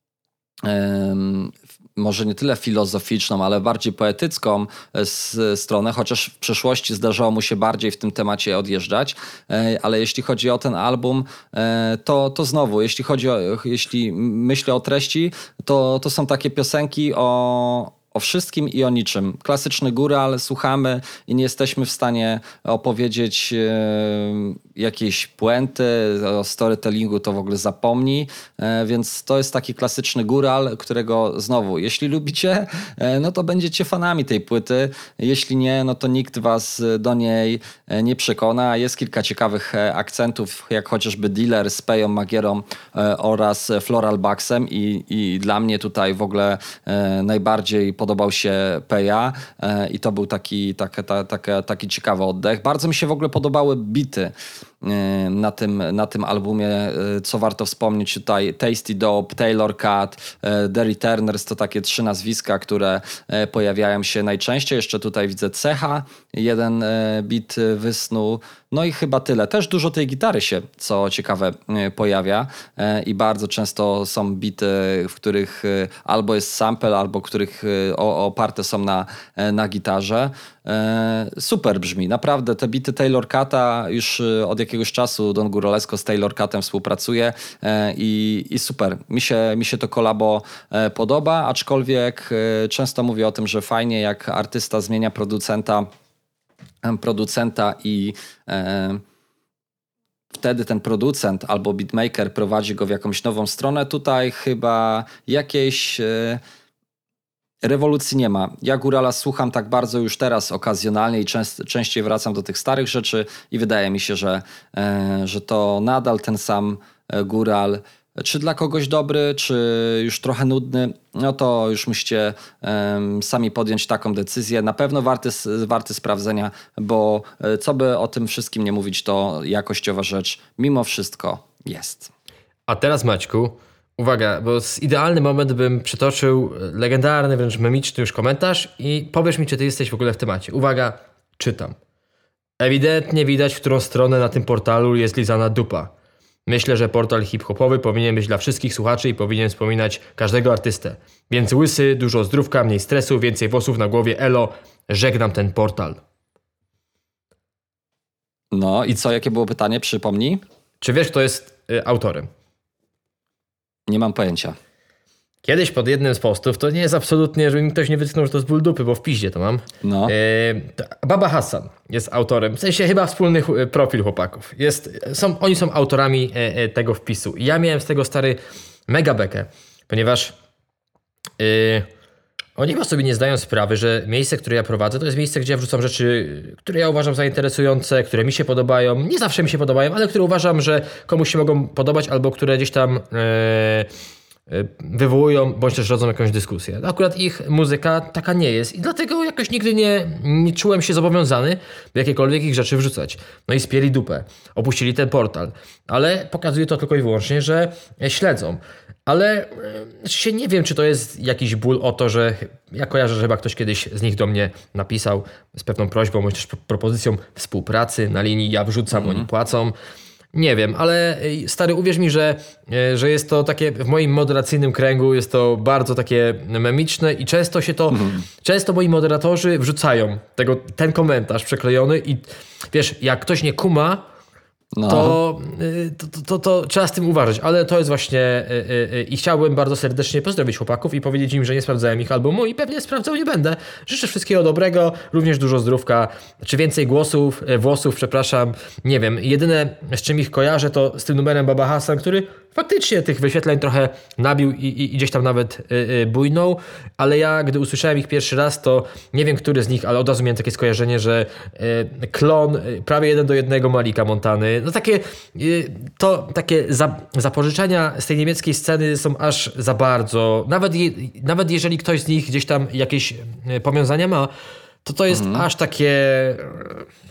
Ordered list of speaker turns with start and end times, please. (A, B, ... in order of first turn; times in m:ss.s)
0:00.6-1:35.9 A
1:36.8-1:39.0 A
1:40.3-1:46.4 A
1:47.6-2:12.1 A
2:12.7-2:21.8 B
2:22.6-2:25.9 B
2:26.5-2:36.0 B
2:38.5-2:40.4 A
2:40.8-2:42.3 B
2:43.9-2:44.6 A
2:45.4-3:00.4 B
2:49.8-2:50.1 A
3:01.4-3:01.9 B
3:02.6-3:13.9 B
3:14.5-3:39.8 B
3:38.9-3:39.3 A
3:40.3-3:54.0 B
3:47.9-3:48.2 A
3:54.8-3:55.2 A
3:54.9-4:34.3 B
4:34.8-4:36.9 B
4:35.1-4:35.5 A